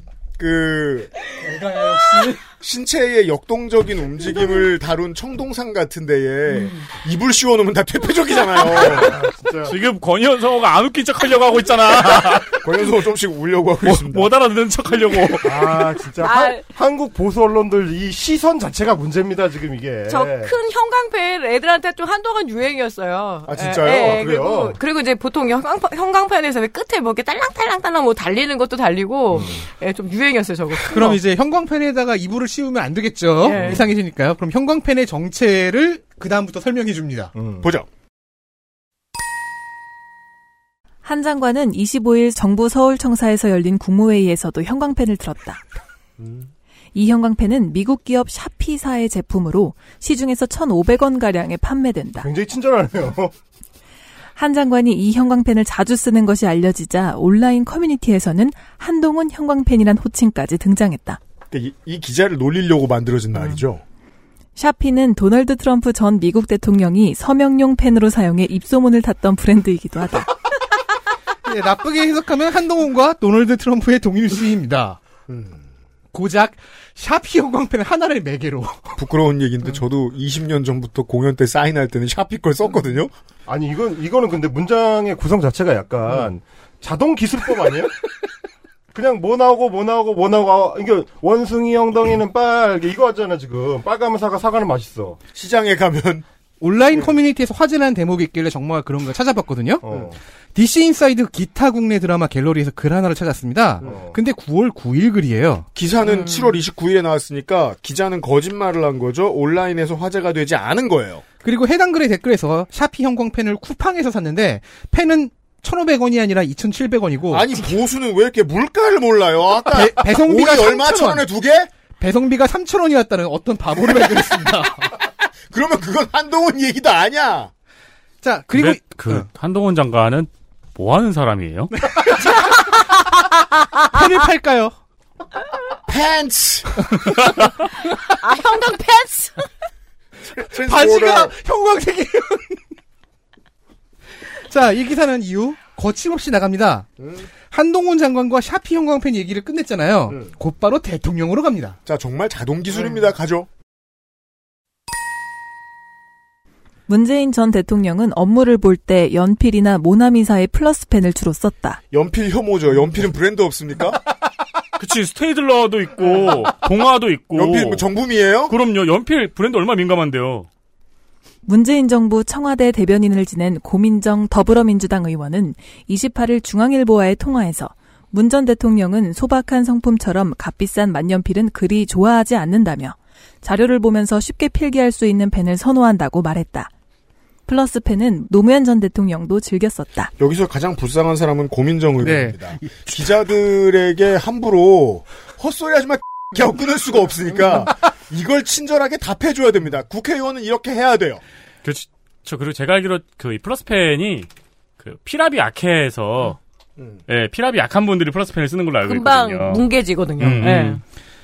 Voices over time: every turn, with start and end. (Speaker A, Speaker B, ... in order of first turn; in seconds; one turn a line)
Speaker A: 0.4-1.1
Speaker B: 1.4-2.4
Speaker A: 2.6-9.2
Speaker C: 8.8-9.7
Speaker D: 9.7-12.7
Speaker A: 12.5-14.3
Speaker D: 13.8-15.9
Speaker C: 15.4-20.5
Speaker E: 16.2-16.7
Speaker E: 20.1-31.2
Speaker A: 23.5-24.7
Speaker C: 23.8-24.8
Speaker B: 30.9-37.3
Speaker E: 33.4-33.8
Speaker C: 33.5-33.9
Speaker C: 37.4-37.7
Speaker A: 37.6-37.9
Speaker F: 41.0-45.6
Speaker A: 46.2-46.5
Speaker F: 46.9-52.3
Speaker C: 52.2-53.3
Speaker F: 54.4-61.2
Speaker A: 61.5-63.8
Speaker F: 64.6-70.3
Speaker B: 71.5-75.0
Speaker A: 75.3-75.6
Speaker B: 76.1-79.0
Speaker A: 79.0-83.1
Speaker C: 83.5-88.0
Speaker C: 88.9-95.2
Speaker A: 95.3-96.2
Speaker B: 96.6-99.8
Speaker C: 99.8-100.2
Speaker B: 100.5-105.7
Speaker C: 103.8-104.2
Speaker A: 105.8-111.2
Speaker B: 111.4-117.5
Speaker A: 117.3-121.7
Speaker B: 119.7-121.2
Speaker B: 122.0-124.9
Speaker A: 125.5-127.5
Speaker B: 128.2-129.3
Speaker D: 128.5-131.7
Speaker B: 131.7-132.7
Speaker B: 133.8-134.7
Speaker A: 135.9-136.7
Speaker E: 138.2-139.4
Speaker A: 140.4-141.3
Speaker B: 140.5-142.6
Speaker B: 144.3-146.9
Speaker A: 147.0-147.3
Speaker B: 147.5-151.8
Speaker A: 151.9-153.5
Speaker F: 156.9-161.8
Speaker A: 161.9-164.0
Speaker D: 164.8-167.9
Speaker A: 167.3-168.6
Speaker D: 168.5-170.5
Speaker F: 171.5-186.7
Speaker F: 187.5-190.1
Speaker A: 190.2-201.2
Speaker B: 192.0-192.9
Speaker D: 201.6-206.4
Speaker D: 207.1-209.7
Speaker E: 208.8-210.8
Speaker D: 210.2-210.8
Speaker B: 210.3-210.6